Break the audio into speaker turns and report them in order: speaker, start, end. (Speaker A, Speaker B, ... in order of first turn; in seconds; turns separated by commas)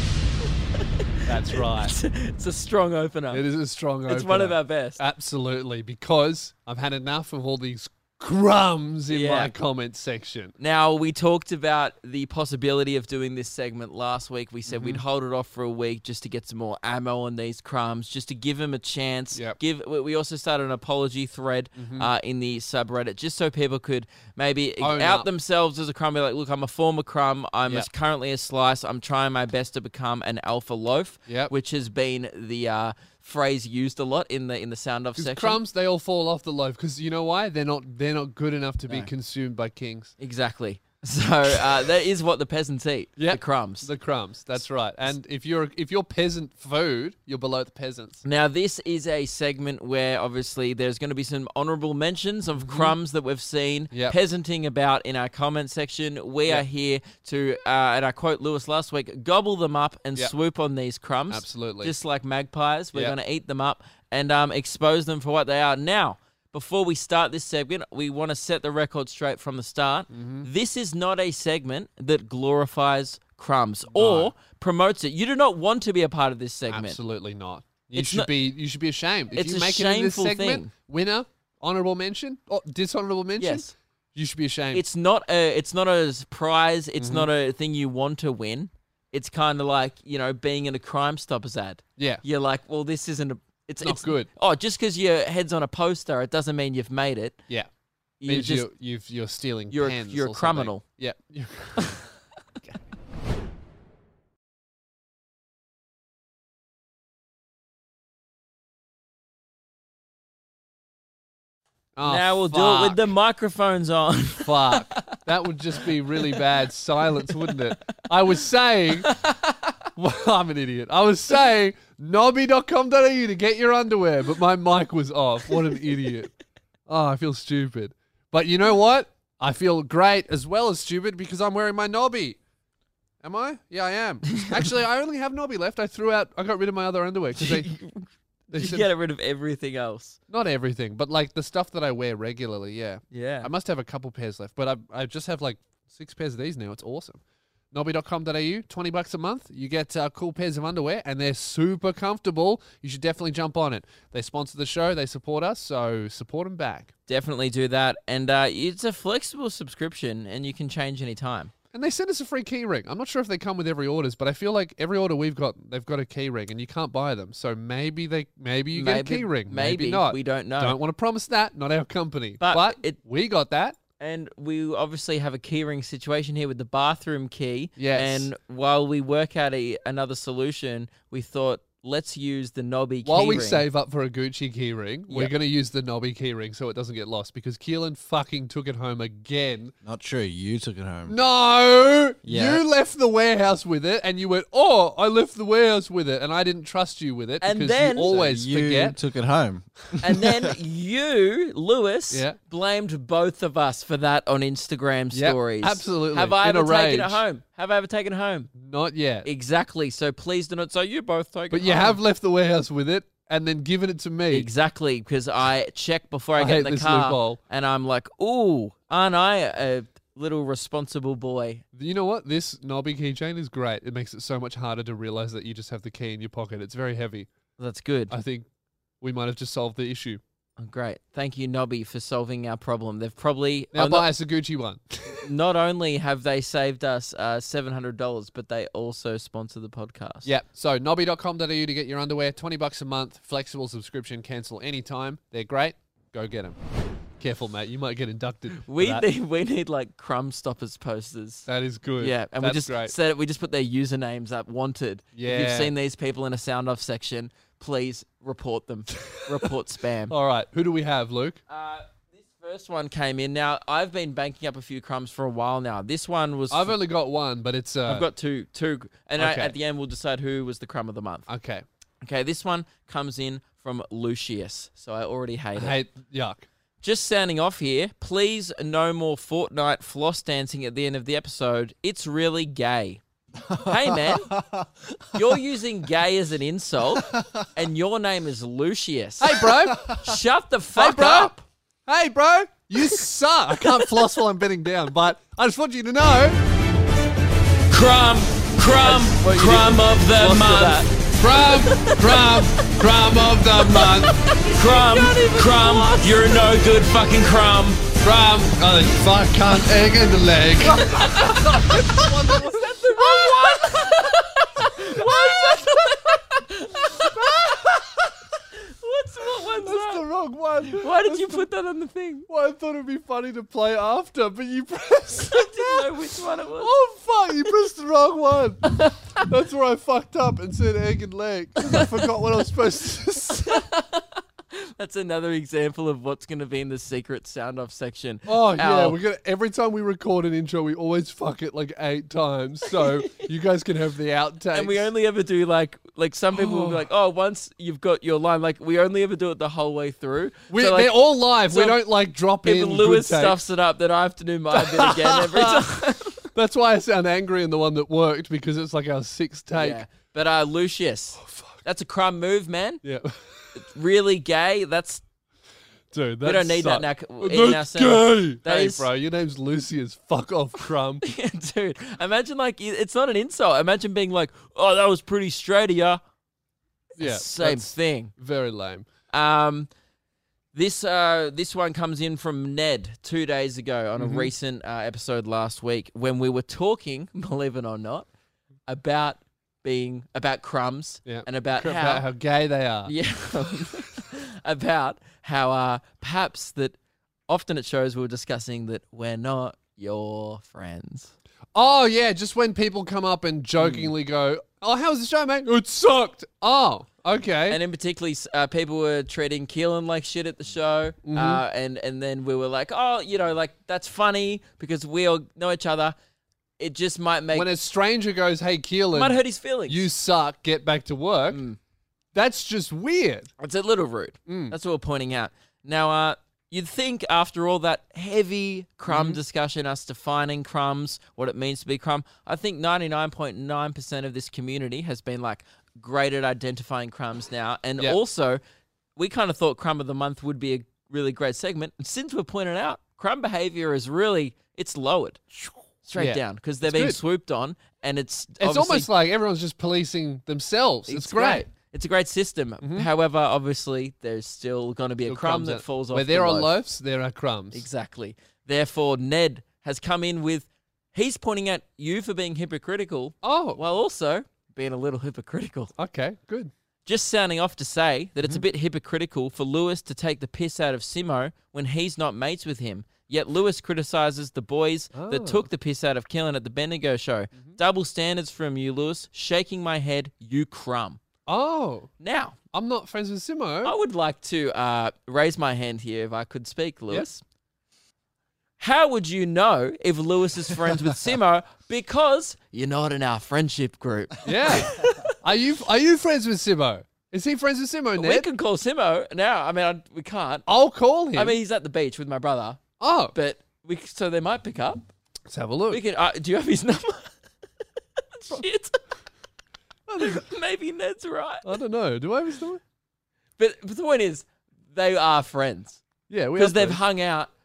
Speaker A: 1.2-1.9, Speaker B: 1.5-3.4, Speaker A: 3.3-10.5, Speaker B: 4.1-5.0, Speaker B: 9.1-9.5, Speaker B: 10.6-35.6, Speaker A: 14.7-15.0, Speaker A: 21.8-22.1, Speaker A: 24.8-25.3, Speaker A: 31.3-31.5, Speaker A: 35.2-40.1, Speaker B: 40.2-43.9, Speaker A: 43.2-48.2, Speaker B: 48.2-77.0, Speaker A: 52.6-52.9, Speaker A: 53.9-54.2, Speaker A: 61.3-61.9, Speaker A: 70.1-70.5, Speaker A: 73.9-74.3, Speaker A: 76.7-84.8, Speaker B: 77.9-78.3, Speaker B: 79.3-80.7, Speaker B: 83.4-83.7, Speaker B: 84.7-97.4, Speaker A: 87.0-87.3, Speaker A: 92.0-92.2, Speaker A: 93.8-94.3, Speaker B: 98.2-98.7, Speaker A: 98.2-101.9, Speaker B: 99.7-100.8, Speaker A: 112.0-113.1, Speaker B: 112.0-115.2, Speaker A: 114.4-119.1, Speaker B: 117.3-117.6, Speaker B: 119.0-119.5, Speaker A: 120.0-126.3, Speaker A: 126.9-132.4, Speaker A: 133.2-137.7, Speaker B: 137.4-140.2, Speaker A: 138.5-138.9, Speaker A: 140.3-147.2, Speaker B: 143.1-143.5, Speaker A: 147.7-156.9, Speaker B: 157.1-161.5, Speaker A: 161.7-173.8, Speaker B: 168.7-170.8, Speaker B: 172.4-173.0, Speaker B: 174.0-183.6, Speaker A: 177.8-178.3, Speaker A: 183.0-189.7, Speaker C: 189.8-191.1, Speaker A: 191.1-199.0, Speaker C: 192.2-192.6, Speaker B: 197.4-198.1, Speaker C: 198.1-200.4, Speaker B: 200.0-208.5, Speaker A: 202.1-202.4, Speaker A: 205.1-207.2, Speaker A: 208.6-209.3, Speaker B: 209.2-212.0, Speaker A: 211.5-214.5, Speaker B: 214.3-221.6, Speaker A: 216.4-217.4, Speaker A: 221.7-227.3, Speaker B: 227.6-228.1, Speaker A: 228.1-228.4, Speaker A: 229.0-230.2, Speaker B: 230.6-234.1, Speaker A: 233.7-235.2, Speaker B: 235.1-240.3, Speaker A: 240.2-246.6, Speaker A: 247.2-249.1, Speaker B: 248.6-251.5, Speaker A: 251.4-252.9, Speaker B: 252.0-260.1, Speaker A: 255.1-255.7, Speaker A: 259.0-259.5, Speaker A: 260.1-261.4, Speaker B: 261.5-266.7, Speaker A: 266.5-268.1, Speaker B: 267.9-271.3, Speaker A: 269.2-269.5, Speaker A: 271.3-271.6, Speaker B: 272.0-275.8, Speaker A: 275.6-276.4, Speaker B: 276.8-283.0, Speaker C: 283.5-284.6, Speaker B: 283.5-284.3, Speaker B: 285.1-291.4, Speaker A: 289.2-290.0, Speaker A: 290.7-291.3, Speaker A: 291.9-296.4, Speaker B: 297.7-302.7, Speaker A: 301.2-304.1, Speaker B: 303.7-307.9, Speaker A: 308.0-313.6, Speaker B: 310.8-317.6, Speaker A: 314.8-315.9, Speaker A: 316.9-318.1, Speaker B: 318.8-320.0, Speaker A: 319.6-321.4, Speaker B: 320.7-322.3, Speaker A: 322.3-325.9, Speaker B: 325.3-326.7, Speaker A: 326.6-333.6, Speaker B: 328.7-329.3, Speaker B: 331.6-332.0, Speaker B: 333.4-339.0, Speaker A: 338.3-344.9, Speaker B: 344.5-350.9, Speaker A: 346.3-346.8, Speaker A: 350.5-353.4, Speaker B: 351.5-351.8, Speaker B: 352.4-356.3, Speaker A: 354.5-355.7, Speaker A: 356.3-359.8, Speaker B: 359.6-362.8, Speaker A: 361.2-361.6, Speaker A: 362.8-363.6, Speaker B: 363.5-365.0, Speaker A: 365.9-371.1, Speaker B: 366.2-368.9, Speaker B: 371.0-376.0, Speaker B: 377.0-378.1, Speaker A: 377.0-378.9, Speaker B: 379.1-379.7, Speaker B: 380.5-388.1, Speaker A: 384.0-384.3, Speaker B: 388.7-392.1, Speaker A: 391.1-392.9, Speaker B: 392.9-396.8, Speaker B: 397.3-401.1, Speaker A: 401.5-407.6, Speaker B: 403.6-403.9, Speaker B: 407.5-415.9, Speaker A: 411.1-411.4, Speaker B: 416.6-417.5, Speaker A: 417.3-421.4, Speaker B: 418.9-419.9, Speaker B: 421.3-421.6, Speaker A: 422.1-423.3, Speaker B: 423.4-438.4, Speaker A: 424.2-424.6, Speaker A: 428.9-429.2, Speaker B: 439.0-445.2, Speaker A: 445.4-447.0, Speaker B: 445.8-448.9, Speaker A: 448.4-451.4, Speaker B: 450.9-456.5, Speaker A: 452.6-452.9, Speaker A: 455.1-457.6, Speaker B: 457.5-465.7, Speaker A: 463.2-463.6, Speaker A: 465.8-466.5, Speaker B: 466.9-481.0, Speaker A: 474.9-475.5, Speaker A: 481.3-481.9, Speaker B: 482.0-482.4, Speaker A: 482.5-483.7, Speaker B: 483.6-487.2, Speaker B: 488.6-495.2, Speaker A: 494.2-498.3, Speaker B: 498.0-500.4, Speaker A: 500.5-501.4, Speaker B: 501.1-502.6, Speaker A: 502.8-503.1, Speaker B: 503.1-504.9, Speaker A: 505.3-505.8, Speaker B: 505.7-507.1, Speaker B: 508.1-508.8, Speaker A: 509.9-510.3, Speaker B: 510.0-511.6, Speaker A: 511.4-512.6, Speaker B: 513.4-515.8, Speaker A: 516.1-516.8, Speaker B: 516.4-517.3